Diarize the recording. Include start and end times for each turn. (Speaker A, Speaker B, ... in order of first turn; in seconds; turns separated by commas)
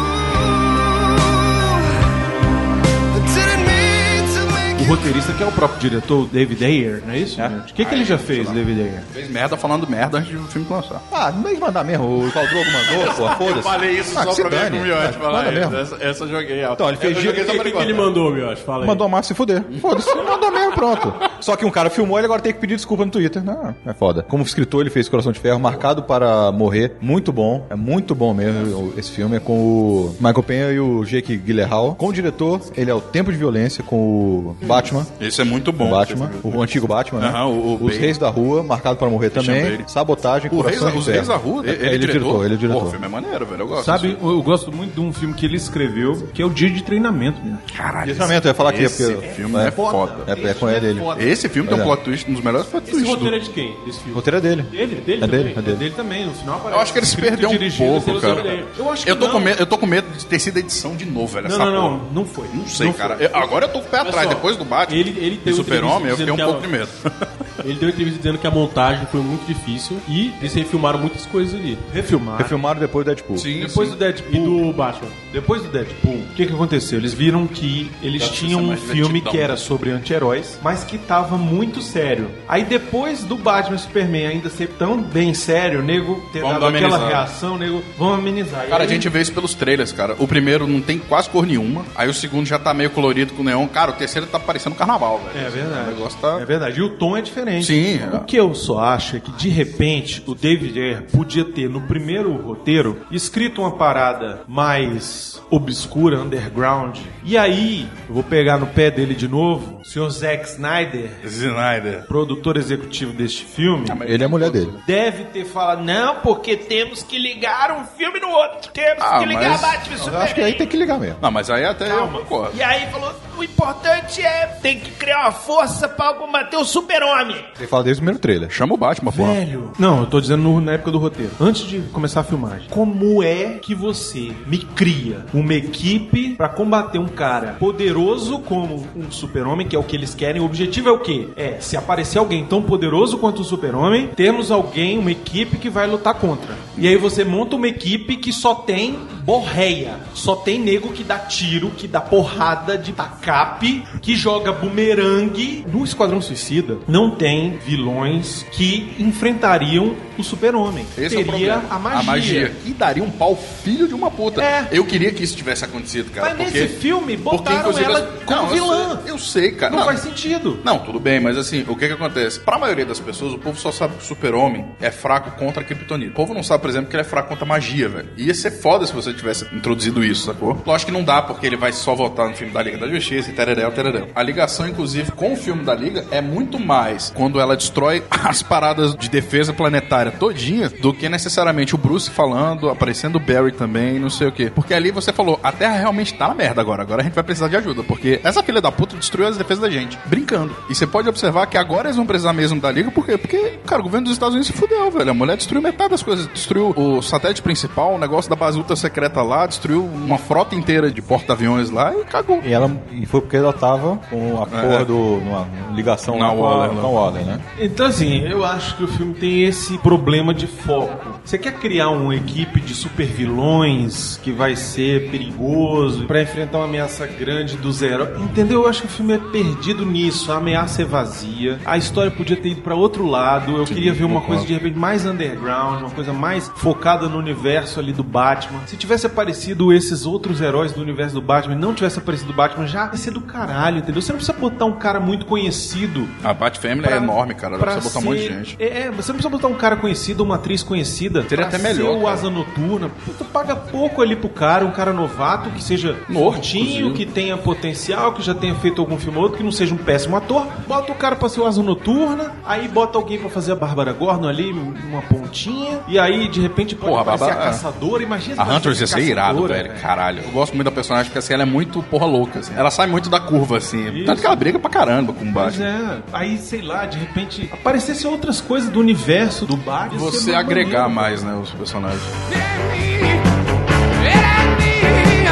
Speaker A: 3.1-5.1, Speaker B: 4.8-9.1, Speaker C: 7.4-11.0, Speaker D: 11.1-15.8, Speaker C: 12.8-18.1, Speaker D: 16.8-17.7, Speaker E: 17.4-19.0, Speaker D: 18.8-35.1, Speaker C: 19.7-21.2, Speaker C: 34.6-36.7, Speaker D: 35.8-43.0, Speaker C: 37.2-38.2, Speaker C: 39.3-39.9, Speaker C: 40.5-44.2, Speaker B: 43.8-47.6, Speaker C: 47.7-50.3, Speaker D: 48.0-51.1, Speaker B: 49.2-51.5, Speaker C: 51.1-53.4, Speaker D: 51.6-51.9, Speaker E: 52.9-55.6, Speaker D: 54.1-55.8, Speaker B: 55.6-59.5, Speaker C: 56.7-67.3, Speaker E: 58.1-58.7, Speaker B: 61.4-63.5, Speaker E: 64.0-66.7, Speaker E: 67.6-71.8, Speaker B: 71.9-72.6, Speaker D: 72.4-73.5, Speaker C: 73.3-74.0, Speaker B: 73.6-74.6, Speaker E: 74.3-75.2, Speaker B: 75.3-89.1, Speaker C: 78.2-79.6, Speaker C: 86.4-87.3, Speaker C: 88.7-96.4, Speaker B: 95.3-111.2, Speaker C: 97.6-98.3, Speaker C: 111.2-112.1, Speaker B: 112.1-114.0, Speaker C: 113.8-114.8, Speaker D: 114.0-114.8, Speaker B: 114.8-120.6, Speaker C: 119.0-119.9, Speaker D: 120.0-121.2, Speaker C: 121.2-122.6, Speaker B: 121.8-123.9, Speaker A: 123.7-124.8, Speaker B: 124.7-127.3, Speaker A: 125.8-127.3, Speaker D: 127.6-128.5, Speaker C: 128.5-129.4, Speaker B: 129.1-162.5, Speaker C: 160.9-166.8, Speaker B: 164.4-164.7, Speaker B: 166.2-169.1, Speaker C: 167.3-170.0, Speaker B: 169.7-170.6, Speaker C: 170.6-212.5, Speaker D: 212.4-217.4, Speaker C: 214.5-214.9, Speaker C: 216.1-217.1, Speaker B: 217.6-246.2, Speaker C: 233.7-234.5, Speaker C: 246.2-248.6, Speaker B: 246.8-269.9, Speaker C: 251.3-252.3, Speaker C: 256.1-257.0, Speaker C: 266.8-267.6, Speaker C: 268.4-275.7, Speaker B: 273.9-274.4, Speaker B: 275.3-281.2, Speaker C: 279.9-282.2